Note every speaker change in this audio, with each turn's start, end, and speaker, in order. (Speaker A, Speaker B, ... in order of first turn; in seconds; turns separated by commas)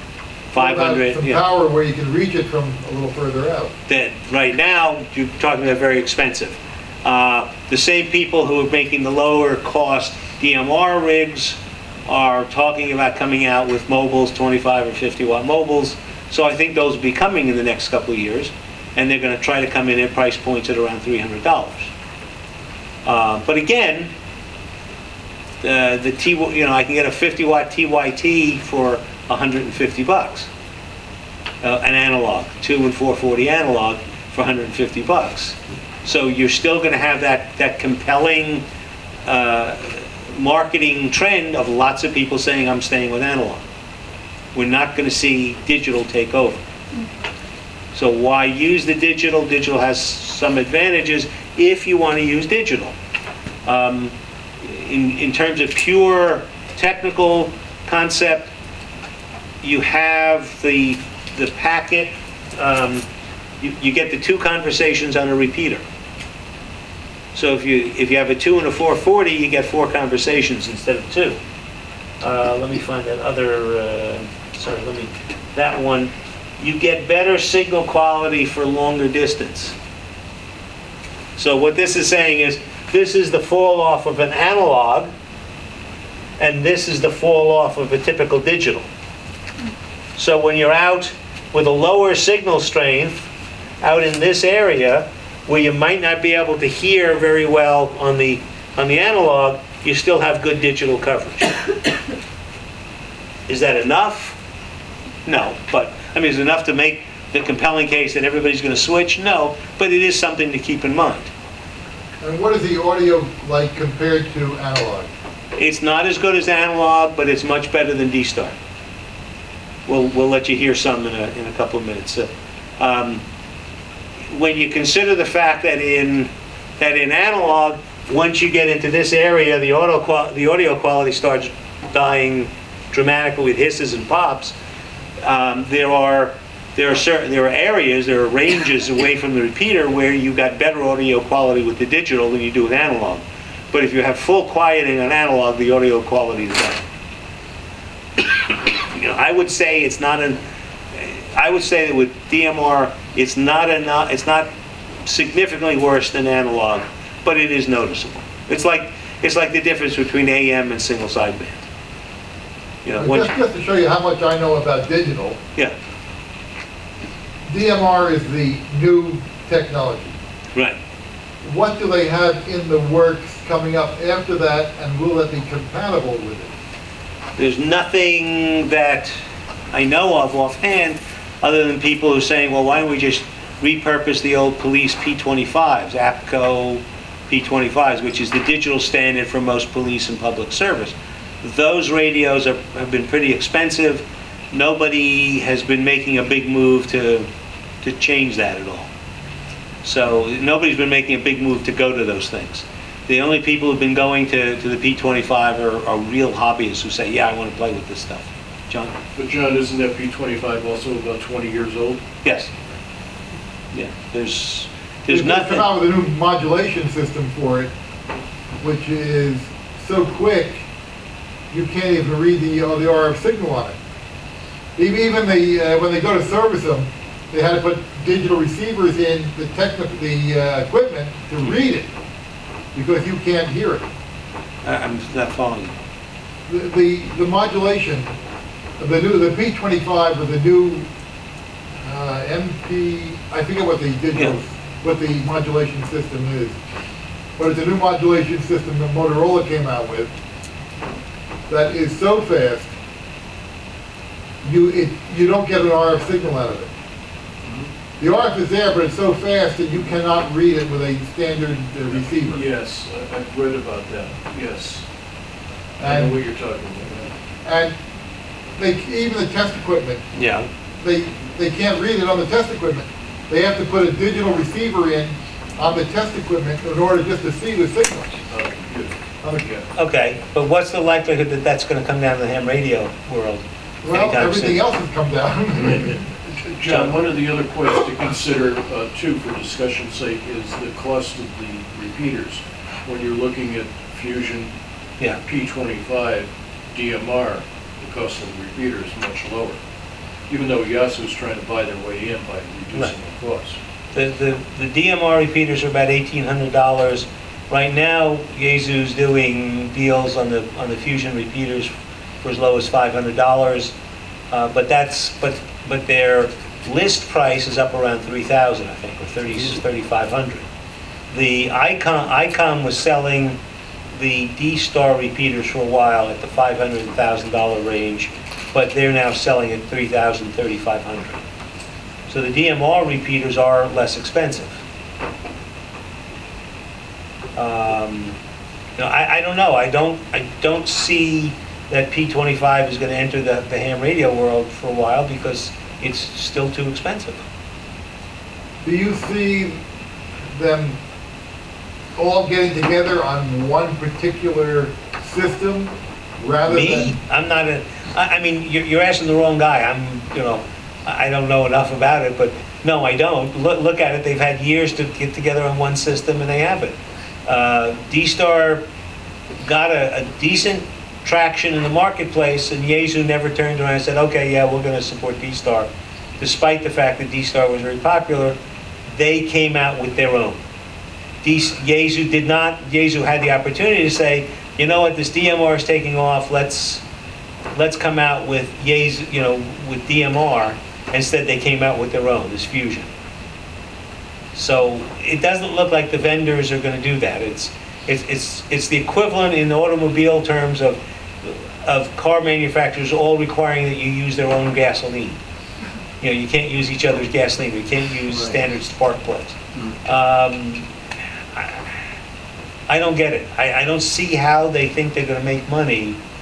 Speaker A: 0.5-1.4, Speaker B: 0.6-3.7, Speaker A: 3.9-21.9, Speaker A: 23.1-24.1, Speaker A: 25.6-30.5, Speaker A: 31.6-38.6, Speaker A: 39.3-43.6, Speaker A: 44.5-46.6, Speaker A: 47.9-53.0, Speaker A: 53.6-58.5, Speaker A: 59.6-63.1, Speaker A: 63.6-65.8, Speaker A: 67.3-71.4, Speaker A: 72.2-79.8, Speaker A: 81.4-85.1, Speaker A: 86.4-88.9, Speaker A: 90.2-93.3, Speaker A: 93.8-101.5, Speaker A: 103.5-104.4, Speaker A: 105.3-111.3, Speaker B: 112.2-115.1, Speaker A: 115.6-118.5, Speaker A: 119.9-122.3, Speaker A: 122.8-123.2, Speaker A: 124.3-134.6, Speaker A: 135.2-146.8, Speaker A: 148.8-150.4, Speaker A: 150.9-154.5, Speaker A: 155.1-161.6, Speaker A: 162.8-163.3, Speaker B: 163.0-165.4, Speaker B: 167.5-170.2, Speaker B: 171.4-176.5, Speaker A: 177.4-179.1, Speaker A: 179.7-197.3, Speaker A: 197.8-198.9, Speaker A: 199.8-209.0, Speaker C: 209.2-212.0, Speaker A: 212.2-212.5, Speaker A: 213.7-215.7, Speaker B: 215.1-217.7, Speaker B: 218.6-220.7, Speaker B: 221.5-223.8, Speaker B: 224.8-231.9, Speaker B: 232.7-233.9, Speaker A: 234.7-235.7, Speaker B: 236.5-238.1, Speaker B: 238.8-240.9, Speaker B: 241.8-246.6, Speaker B: 247.4-250.1, Speaker B: 251.5-252.7, Speaker B: 254.4-256.7, Speaker B: 258.0-262.4, Speaker C: 262.2-264.9, Speaker B: 265.8-266.2, Speaker C: 265.8-267.1, Speaker B: 267.4-267.8, Speaker B: 268.6-270.1, Speaker A: 270.2-270.4, Speaker B: 270.8-278.2, Speaker C: 278.3-279.7, Speaker B: 279.2-279.5, Speaker A: 279.8-284.6, Speaker B: 283.8-286.0, Speaker C: 286.4-294.5, Speaker A: 286.7-287.0, Speaker C: 295.2-299.6, Speaker C: 300.3-303.6, Speaker A: 303.9-311.7, Speaker A: 312.2-313.7, Speaker A: 314.3-320.4, Speaker A: 321.1-323.4, Speaker A: 323.9-331.2, Speaker A: 332.1-334.6, Speaker A: 337.4-338.2, Speaker A: 338.8-347.2, Speaker B: 348.6-349.6, Speaker B: 350.3-350.8, Speaker B: 352.0-356.9, Speaker A: 356.5-368.6, Speaker A: 369.4-375.7, Speaker A: 376.2-378.4, Speaker A: 378.9-380.4, Speaker A: 381.2-386.8, Speaker A: 387.5-392.9, Speaker A: 394.3-405.2, Speaker A: 406.0-410.7, Speaker A: 411.3-411.6, Speaker A: 412.7-416.0